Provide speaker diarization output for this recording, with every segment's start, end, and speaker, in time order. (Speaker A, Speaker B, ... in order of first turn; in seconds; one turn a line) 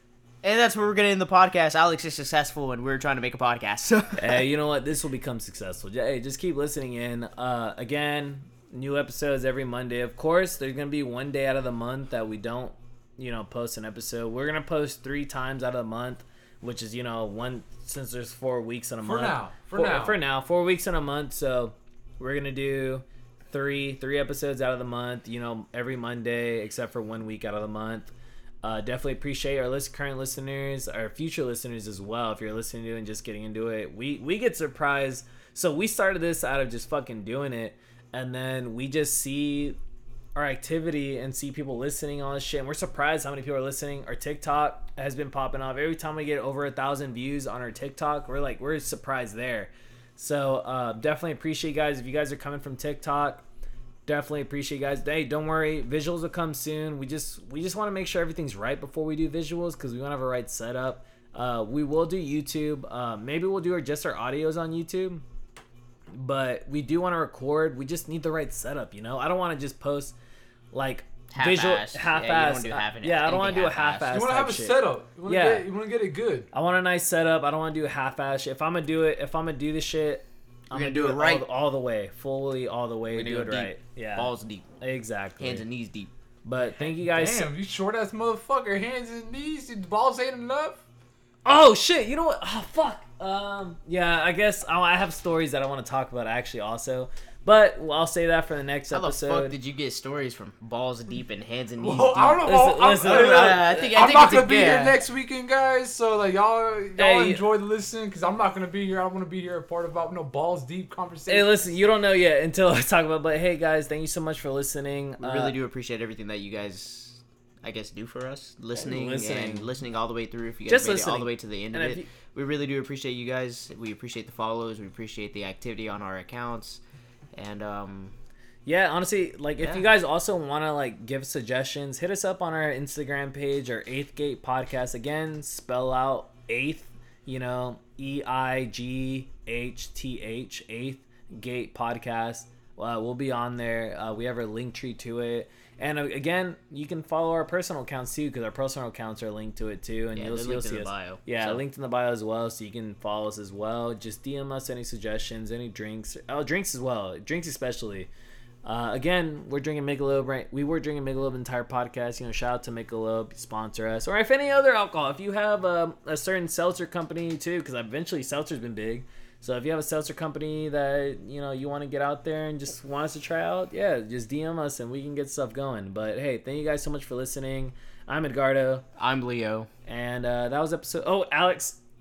Speaker A: 0.4-4.4
Speaker B: 4.2-39.8
Speaker C: 19.0-20.2
Speaker B: 40.3-53.4
Speaker B: 54.0-65.2
Speaker B: 66.1-70.1
Speaker B: 70.7-75.7
Speaker A: 71.3-74.1
Speaker C: 74.1-76.5
Speaker B: 76.5-85.7
Speaker A: 80.7-81.5
Speaker A: 83.1-84.7
Speaker A: 85.4-86.1
Speaker B: 86.4-87.5
Speaker C: 86.8-90.8
Speaker B: 91.4-99.5
Speaker A: 98.9-105.0
Speaker C: 101.8-111.7
Speaker B: 102.4-103.7
Speaker B: 107.0-107.4
Speaker B: 111.3-115.6
Speaker A: 115.2-126.8
Speaker B: 118.7-119.7
Speaker B: 120.7-122.1
Speaker A: 127.3-128.1
Speaker B: 128.7-158.1
Speaker A: 129.6-129.9
Speaker A: 150.2-151.6
Speaker B: 158.6-178.8
Speaker A: 179.0-179.7
Speaker B: 179.9-181.8